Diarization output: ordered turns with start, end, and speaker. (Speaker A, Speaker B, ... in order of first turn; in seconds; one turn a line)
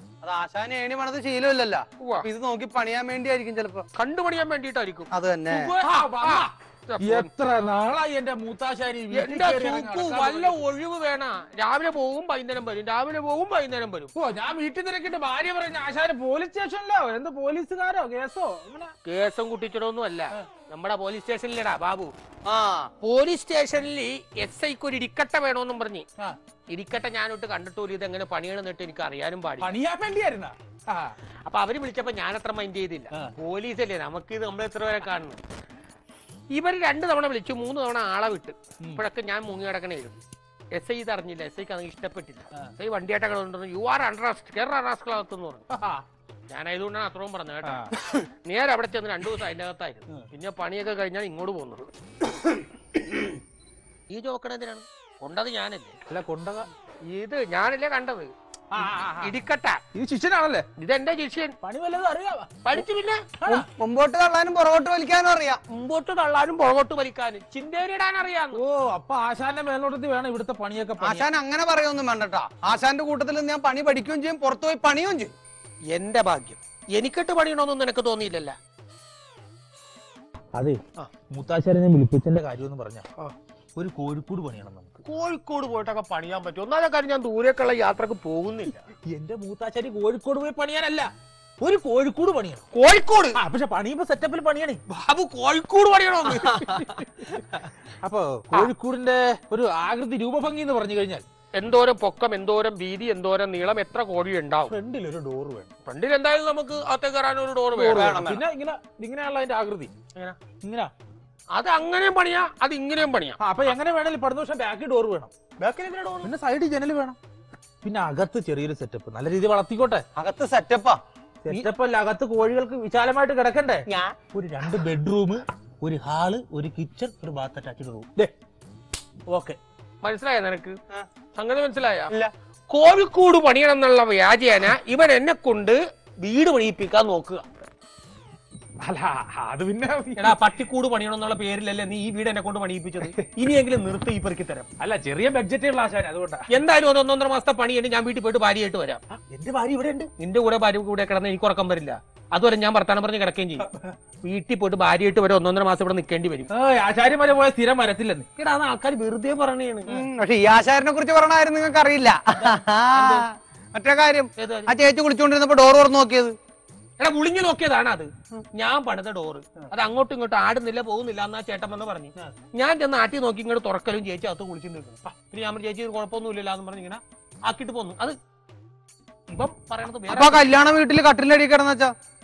Speaker A: 0.2-3.9
Speaker B: 2.0-2.2
Speaker B: 4.0-5.1
Speaker A: 5.1-5.7
Speaker C: 5.5-10.6
Speaker B: 5.8-7.3
Speaker B: 9.1-14.1
Speaker C: 14.1-18.9
Speaker B: 19.0-22.1
Speaker A: 22.4-22.9
Speaker B: 23.0-26.1
Speaker B: 26.7-29.7
Speaker C: 29.6-31.1
Speaker B: 31.4-35.4
Speaker B: 36.5-40.2
Speaker B: 40.7-45.6
Speaker C: 45.7-46.0
Speaker B: 46.5-51.9
Speaker C: 47.6-47.9
Speaker B: 54.1-56.0
Speaker C: 56.1-56.7
Speaker B: 57.0-59.8
Speaker C: 58.7-59.3
Speaker C: 59.9-60.6
Speaker B: 60.8-61.5
Speaker C: 61.6-62.8
Speaker B: 62.6-63.3
Speaker C: 63.4-63.7
Speaker A: 63.5-65.6
Speaker B: 65.7-68.6
Speaker C: 68.5-71.2
Speaker A: 71.0-75.3
Speaker B: 75.9-78.5
Speaker C: 80.5-83.0
Speaker C: 83.8-84.9
Speaker B: 85.0-88.9
Speaker C: 89.0-92.6
Speaker B: 92.7-93.4
Speaker C: 93.3-94.8
Speaker B: 94.9-96.9
Speaker C: 96.6-101.2
Speaker B: 101.5-104.7
Speaker C: 104.7-105.7
Speaker B: 105.8-108.2
Speaker C: 107.7-109.9
Speaker A: 107.8-108.4
Speaker C: 110.6-110.9
Speaker B: 111.5-113.4
Speaker C: 113.4-115.3
Speaker B: 115.6-116.3
Speaker C: 116.2-117.2
Speaker C: 117.8-120.0
Speaker A: 120.2-121.0
Speaker C: 121.4-128.3
Speaker A: 123.9-124.2
Speaker C: 129.3-129.6
Speaker B: 130.0-130.8
Speaker B: 131.3-132.1
Speaker B: 132.7-137.5
Speaker C: 138.8-140.4
Speaker B: 140.2-144.7
Speaker C: 144.8-146.4
Speaker B: 146.5-149.0
Speaker C: 149.1-150.1
Speaker B: 150.2-153.7
Speaker C: 153.7-153.9
Speaker B: 154.2-156.5
Speaker C: 156.5-158.2
Speaker B: 158.4-160.0
Speaker A: 159.9-166.3
Speaker B: 162.3-163.2
Speaker B: 164.4-164.7
Speaker B: 167.0-178.2
Speaker B: 179.3-180.4
Speaker A: 180.1-181.9